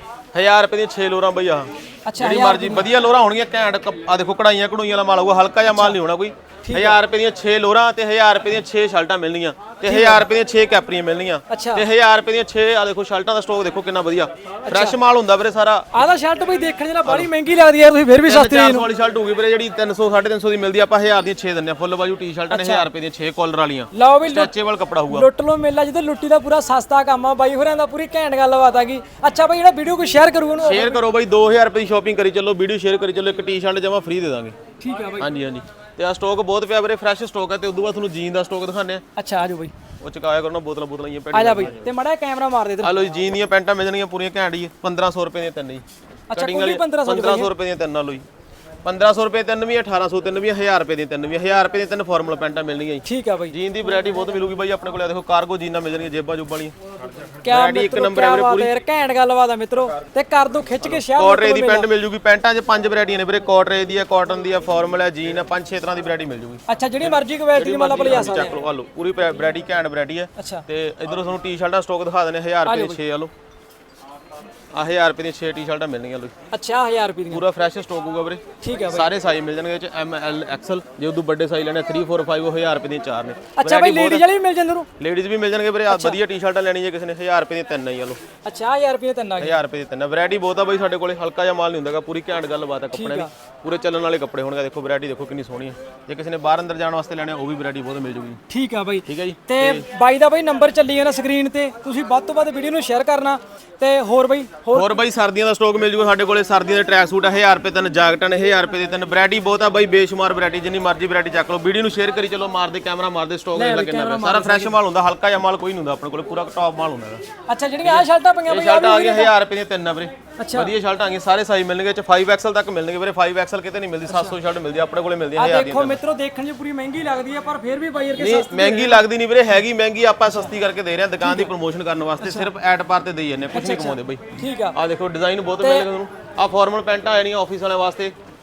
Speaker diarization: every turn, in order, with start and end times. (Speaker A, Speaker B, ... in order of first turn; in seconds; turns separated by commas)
Speaker A: 0.3-15.9, Speaker B: 2.1-2.9, Speaker B: 5.7-6.0, Speaker B: 6.7-7.0, Speaker B: 9.8-10.3, Speaker B: 11.5-11.9, Speaker B: 14.7-15.0, Speaker B: 15.9-18.9, Speaker A: 18.3-25.3, Speaker B: 22.5-22.9, Speaker B: 23.9-24.6, Speaker B: 25.1-31.0, Speaker A: 30.6-34.6, Speaker B: 34.8-35.3, Speaker A: 35.2-39.0, Speaker B: 39.2-39.7, Speaker A: 40.0-41.8, Speaker B: 41.3-43.0, Speaker A: 42.8-48.2, Speaker B: 46.3-47.5, Speaker A: 48.8-56.7, Speaker B: 53.0-53.6, Speaker B: 57.4-61.9, Speaker A: 57.5-58.7, Speaker A: 61.1-73.3, Speaker B: 66.7-68.6, Speaker B: 70.4-70.6, Speaker B: 72.7-73.0, Speaker A: 74.7-76.3, Speaker B: 76.5-77.4, Speaker A: 77.3-84.2, Speaker B: 78.6-79.1, Speaker B: 83.5-84.9, Speaker A: 85.0-88.2, Speaker B: 85.9-86.2, Speaker B: 88.4-89.6, Speaker A: 89.4-98.4, Speaker B: 92.9-93.3, Speaker B: 98.5-105.0, Speaker A: 99.1-99.8, Speaker A: 104.7-117.2, Speaker B: 113.5-114.8, Speaker B: 117.5-119.3, Speaker A: 117.8-126.0, Speaker B: 120.4-120.7, Speaker B: 124.1-124.4, Speaker B: 125.4-129.1, Speaker A: 128.2-138.1, Speaker B: 131.2-131.5, Speaker B: 132.2-132.5, Speaker B: 133.5-134.8, Speaker B: 135.6-135.9